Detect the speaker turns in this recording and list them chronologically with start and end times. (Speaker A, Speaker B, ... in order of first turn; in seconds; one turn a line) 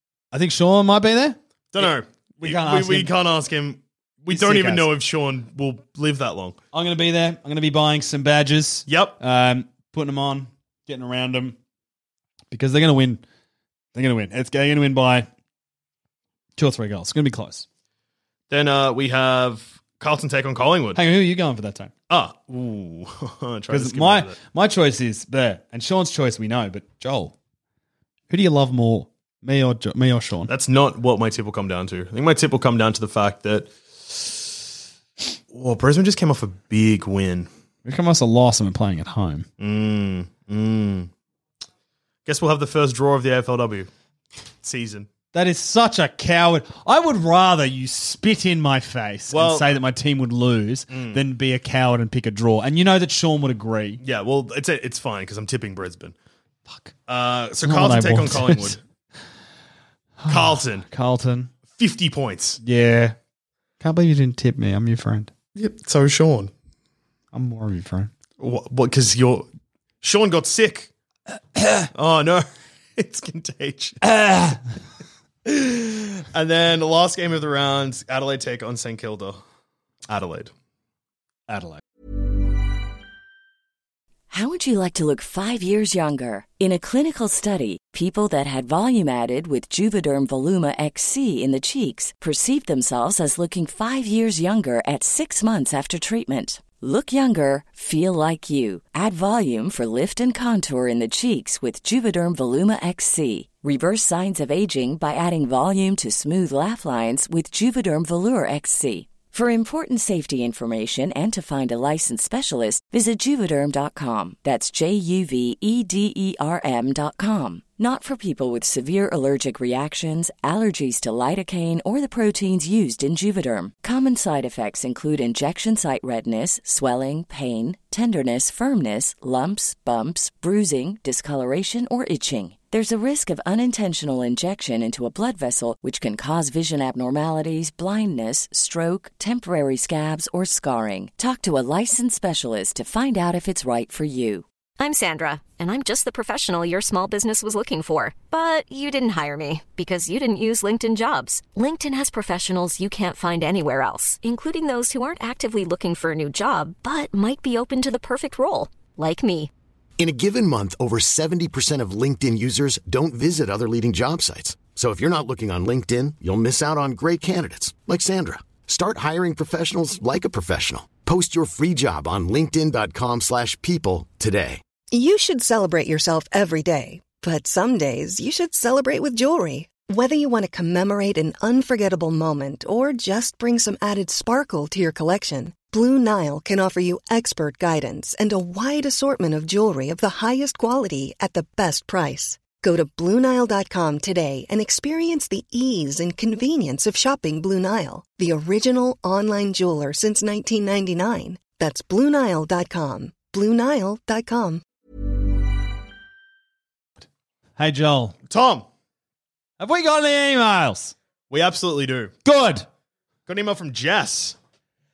Speaker A: 0.3-3.1
Speaker B: 1.7-6.6
Speaker A: 4.3-4.9
Speaker A: 6.7-11.6
Speaker B: 8.9-9.2
Speaker A: 12.5-13.2
Speaker A: 13.9-15.3
Speaker A: 16.6-17.7
Speaker B: 18.5-21.0
Speaker A: 20.9-21.9
Speaker B: 22.1-24.4
Speaker A: 23.7-27.3
Speaker A: 28.3-30.5
Speaker B: 30.5-34.5
Speaker B: 35.5-37.5
Speaker A: 37.9-39.5
Speaker B: 39.6-41.1
Speaker B: 42.3-43.9
Speaker B: 44.6-45.1
Speaker A: 45.3-54.0
Speaker B: 49.3-49.7
Speaker B: 50.9-51.2
Speaker B: 54.0-56.1
Speaker B: 57.1-58.8
Speaker A: 57.6-58.8
Speaker A: 60.2-61.5
Speaker B: 60.3-60.9
Speaker B: 61.8-62.6
Speaker A: 62.6-63.2
Speaker A: 63.8-65.3
Speaker B: 65.6-66.5
Speaker A: 67.3-68.1
Speaker B: 68.4-69.5
Speaker B: 70.0-70.9
Speaker A: 71.5-71.9
Speaker B: 71.9-72.5
Speaker B: 73.0-74.0
Speaker A: 74.0-74.6
Speaker B: 75.5-79.4
Speaker B: 80.1-80.5
Speaker A: 81.5-81.8
Speaker C: 84.3-144.4
Speaker D: 144.8-159.5
Speaker E: 160.0-174.6
Speaker F: 174.9-204.6
Speaker A: 207.6-208.2
Speaker B: 208.3-208.7
Speaker A: 209.6-210.9
Speaker B: 211.3-212.1
Speaker A: 212.3-212.7
Speaker B: 213.3-214.4